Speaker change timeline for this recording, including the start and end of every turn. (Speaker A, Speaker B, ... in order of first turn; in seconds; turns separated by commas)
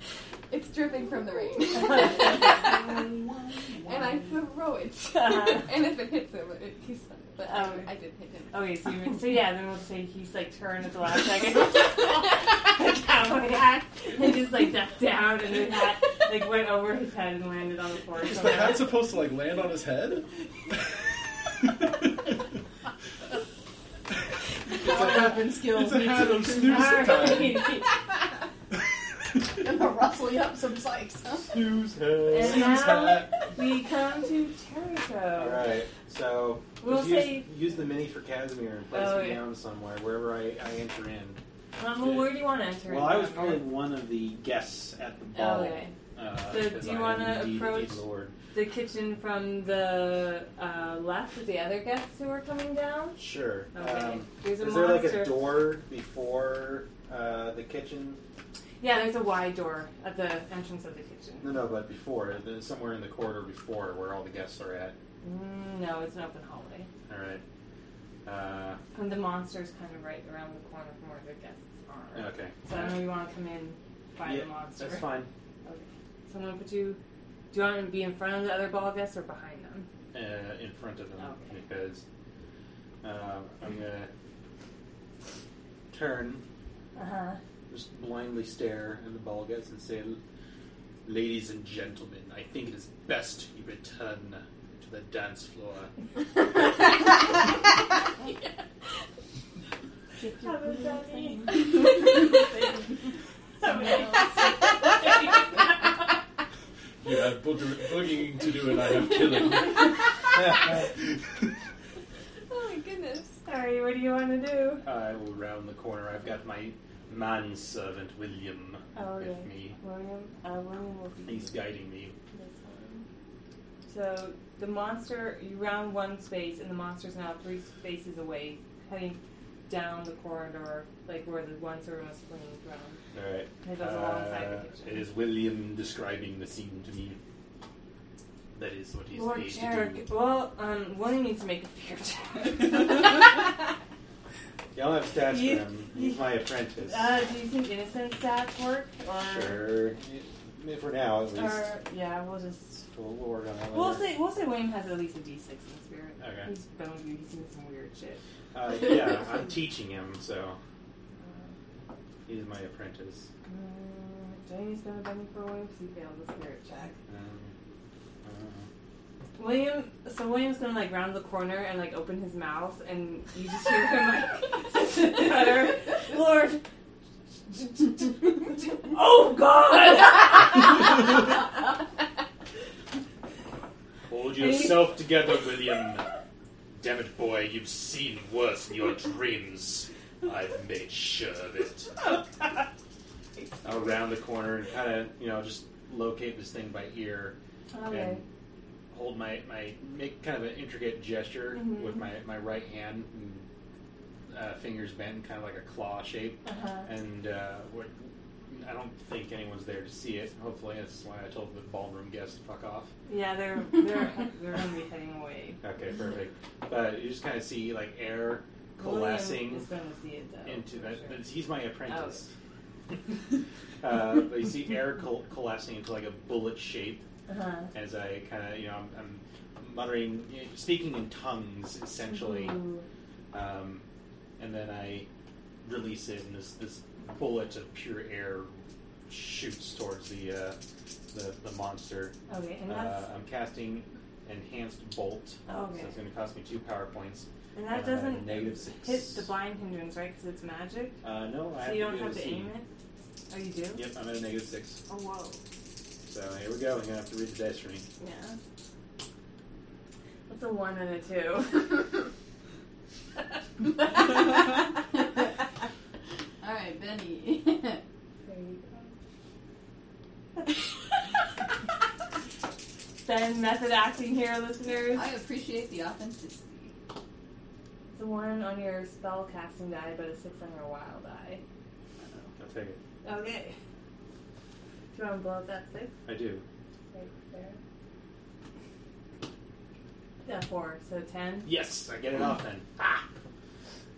Speaker A: 0.5-3.0, Speaker B: 1.7-2.5, Speaker A: 3.8-8.7, Speaker B: 5.1-5.7, Speaker B: 7.4-7.9, Speaker B: 8.5-18.9, Speaker C: 18.2-20.9, Speaker C: 21.6-22.1, Speaker D: 24.7-27.5, Speaker C: 24.8-27.8, Speaker B: 26.6-27.9, Speaker D: 29.6-31.6, Speaker C: 31.6-33.4, Speaker E: 31.8-32.8, Speaker B: 32.3-35.7, Speaker E: 35.4-41.4, Speaker B: 36.8-37.5, Speaker B: 38.9-39.5, Speaker B: 41.8-43.7, Speaker E: 42.0-48.4, Speaker B: 45.3-45.9, Speaker B: 46.5-53.2, Speaker E: 53.2-58.2, Speaker B: 53.7-55.5, Speaker B: 58.8-61.6, Speaker E: 61.4-65.0, Speaker B: 65.2-66.9, Speaker E: 67.1-67.4, Speaker E: 68.2-68.8, Speaker B: 68.9-77.0, Speaker E: 72.1-73.0, Speaker E: 74.2-75.3, Speaker B: 77.5-79.9, Speaker E: 80.1-82.0, Speaker B: 81.2-81.6, Speaker E: 83.0-84.1, Speaker E: 85.9-86.4, Speaker B: 87.0-87.4, Speaker E: 87.7-90.2, Speaker E: 91.0-95.9, Speaker D: 100.2-101.9, Speaker B: 100.2-102.0, Speaker B: 103.6-105.7, Speaker A: 103.7-104.5, Speaker C: 107.0-110.3, Speaker A: 112.5-113.4, Speaker B: 113.5-114.8, Speaker E: 114.8-119.8, Speaker B: 119.0-121.6, Speaker E: 121.2-122.2, Speaker B: 122.3-123.0, Speaker B: 123.9-133.0, Speaker E: 133.1-137.2, Speaker B: 133.6-135.1, Speaker E: 138.6-140.1, Speaker B: 139.1-143.3, Speaker E: 144.7-147.1, Speaker B: 145.3-149.7, Speaker E: 149.2-151.7, Speaker B: 151.3-152.9, Speaker E: 152.9-154.1, Speaker B: 153.7-158.2, Speaker E: 156.2-156.5, Speaker E: 158.5-160.6, Speaker B: 161.2-161.6, Speaker E: 162.3-163.3, Speaker B: 163.5-167.0, Speaker E: 167.1-167.5, Speaker E: 168.2-168.7, Speaker B: 169.4-176.6, Speaker B: 177.5-181.0, Speaker E: 184.1-186.1, Speaker B: 184.4-184.9, Speaker E: 186.7-192.0, Speaker E: 193.6-197.3, Speaker B: 197.7-198.2, Speaker E: 197.9-198.2, Speaker E: 198.9-203.5, Speaker B: 201.5-202.1, Speaker E: 204.3-212.9, Speaker B: 206.4-206.9, Speaker B: 213.1-215.6, Speaker E: 215.6-219.7, Speaker B: 218.8-221.2, Speaker E: 220.4-222.3, Speaker B: 221.8-222.2, Speaker E: 223.8-227.1, Speaker B: 227.3-227.7, Speaker E: 227.7-232.6, Speaker B: 232.1-232.9, Speaker E: 233.3-233.8, Speaker E: 234.4-235.1, Speaker E: 235.6-238.5, Speaker E: 239.1-240.6, Speaker E: 241.1-242.2, Speaker B: 242.3-243.1, Speaker E: 242.7-249.3, Speaker B: 245.5-246.0, Speaker B: 247.6-251.0, Speaker E: 251.0-252.5, Speaker B: 251.6-252.7, Speaker B: 253.3-253.9, Speaker E: 253.7-254.8, Speaker B: 254.9-255.4, Speaker E: 256.1-257.9, Speaker B: 258.0-258.4, Speaker B: 260.3-261.9, Speaker D: 266.4-267.8, Speaker B: 268.3-268.9, Speaker B: 270.4-270.6, Speaker B: 273.0-275.1, Speaker D: 274.9-276.7, Speaker B: 277.9-281.4, Speaker E: 282.4-282.8, Speaker B: 283.0-283.6, Speaker B: 284.9-286.0, Speaker E: 286.1-286.4, Speaker B: 286.9-287.6, Speaker B: 290.2-291.5, Speaker E: 291.4-292.9